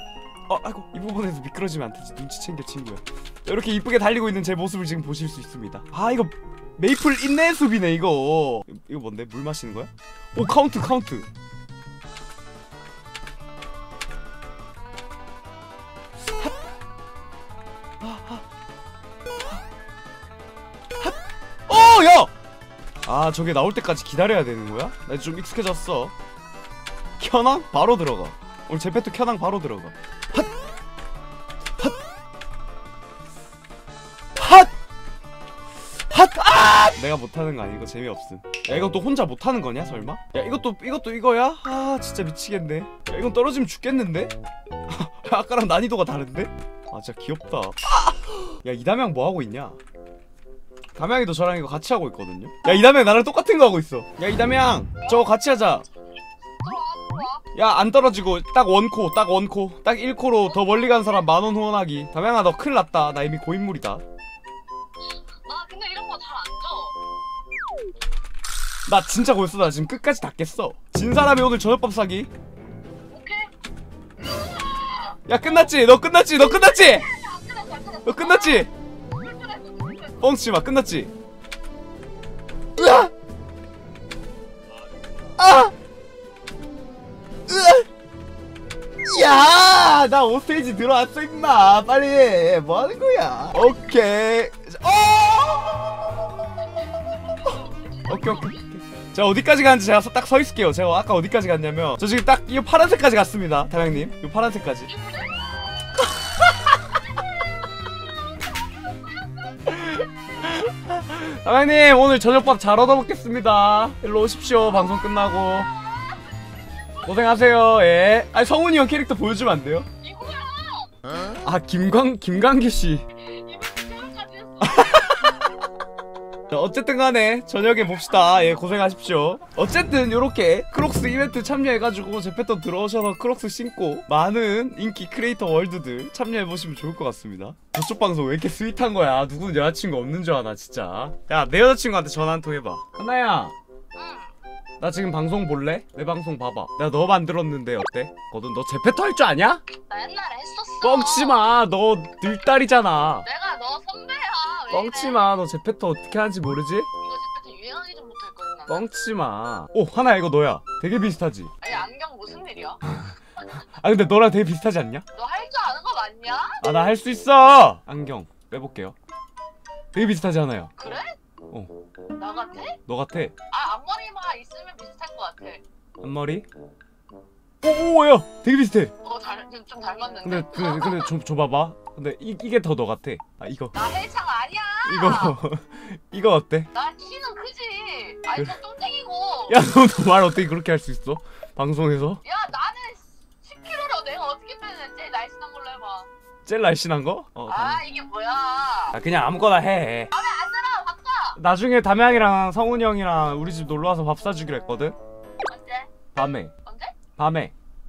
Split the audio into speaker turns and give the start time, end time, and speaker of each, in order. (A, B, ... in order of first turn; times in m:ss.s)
0:00.5-0:11.3 A
0:18.0-0:18.4 A
0:21.0-0:22.3 A
0:23.1-0:26.1 A
0:27.2-0:30.5 A
0:34.4-0:34.7 A
0:36.1-0:44.3 A
0:44.9-0:49.8 A
0:51.0-0:55.9 A
0:56.6-0:57.5 B
0:57.5-1:04.0 A
1:00.4-1:01.3 B
1:05.0-1:07.0 B
1:08.9-1:12.3 A
1:13.1-1:13.5 B
1:14.2-1:15.2 B
1:15.3-1:17.1 A
1:16.3-1:20.2 B
1:18.0-1:18.7 A
1:20.2-1:21.1 A
1:22.8-1:23.1 A
1:25.4-1:25.7 A
1:27.5-1:27.9 A
1:29.0-1:36.2 A
1:37.5-1:44.9 A
1:44.9-1:45.6 B
1:46.0-1:46.7 A
1:49.6-1:55.7 A
1:55.7-1:56.2 B
1:57.0-1:59.9 A
2:00.0-2:00.9 B
2:01.4-2:03.1 A
2:03.1-2:05.5 B
2:04.6-2:05.6 A
2:06.5-2:23.6 A
2:24.0-2:24.3 B
2:24.8-2:29.6 A
2:29.7-2:31.4 B
2:30.8-2:33.3 A
2:33.2-2:35.4 B
2:34.7-2:36.9 A
2:37.0-2:38.9 B
2:38.7-2:41.5 A
2:41.6-2:42.8 B
2:42.8-2:45.0 A
2:45.1-2:46.6 B
2:46.6-2:49.0 A
2:49.9-2:50.7 A
2:50.8-2:51.2 B
2:52.2-2:52.8 B
2:52.9-2:53.3 A
2:53.5-2:55.6 B
2:56.0-2:56.5 A
2:57.6-2:58.9 A
2:59.0-3:01.1 B
3:00.2-3:03.8 A
3:03.8-3:05.4 B
3:04.8-3:06.7 A
3:06.7-3:09.6 B
3:09.5-3:12.2 A
3:12.2-3:16.1 B
3:16.4-3:17.9 A
3:17.5-3:19.0 B
3:18.9-3:20.1 A
3:20.1-3:21.4 B
3:21.4-3:25.0 A
3:25.5-3:26.1 B
3:26.1-3:26.5 A
3:26.6-3:27.0 B
3:27.2-3:27.5 A